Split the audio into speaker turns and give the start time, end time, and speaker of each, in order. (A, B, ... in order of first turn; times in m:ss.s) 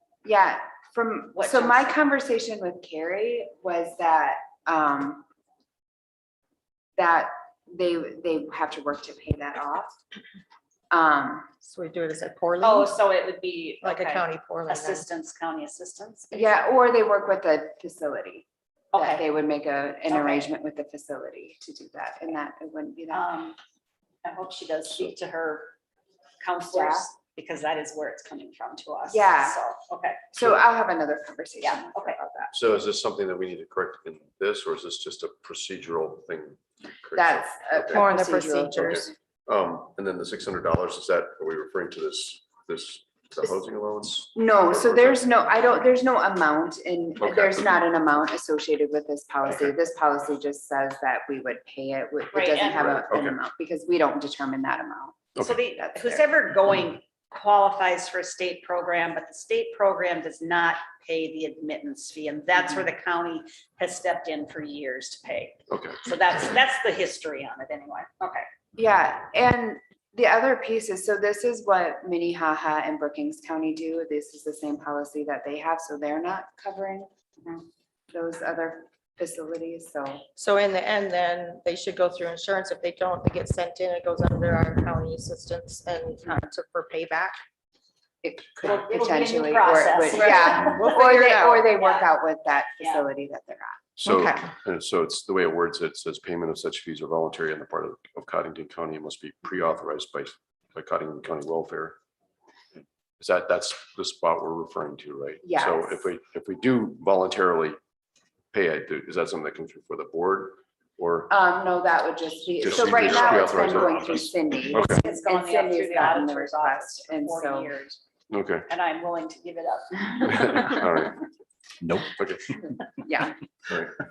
0:00.2-0:05.2 A
0:01.3-0:02.0 B
0:07.0-0:10.0 A
0:10.9-0:11.5 A
0:11.6-0:12.9 C
0:12.6-0:16.7 B
0:13.8-0:15.1 C
0:16.3-0:23.2 A
0:18.9-0:19.2 B
0:20.1-0:20.5 B
0:23.1-0:23.6 B
0:24.2-0:25.7 B
0:26.4-0:30.3 B
0:26.7-0:27.1 A
0:29.1-0:29.6 A
0:30.3-0:32.5 A
0:31.6-0:32.2 B
0:32.5-0:38.2 D
0:37.2-0:39.1 A
0:38.0-0:39.0 C
0:38.8-0:45.4 D
0:44.3-0:56.2 A
0:47.2-0:47.7 D
0:52.3-0:53.1 B
0:53.1-0:53.4 D
0:55.4-1:08.5 B
1:05.7-1:06.0 D
1:08.8-1:20.2 A
1:20.4-1:27.4 C
1:28.2-1:33.9 A
1:28.6-1:31.2 B
1:30.2-1:31.6 C
1:31.7-1:32.1 B
1:32.8-1:33.1 B
1:34.0-1:42.0 D
1:34.0-1:34.4 C
1:43.2-1:47.8 D
1:45.4-1:46.0 A
1:48.5-1:51.3 D
1:51.3-1:57.7 A
1:52.6-1:55.0 D
1:54.8-1:58.0 B
1:58.3-1:58.7 D
1:58.7-2:00.7 B
2:00.2-2:01.2 D
2:02.1-2:02.6 D
2:02.6-2:03.3 A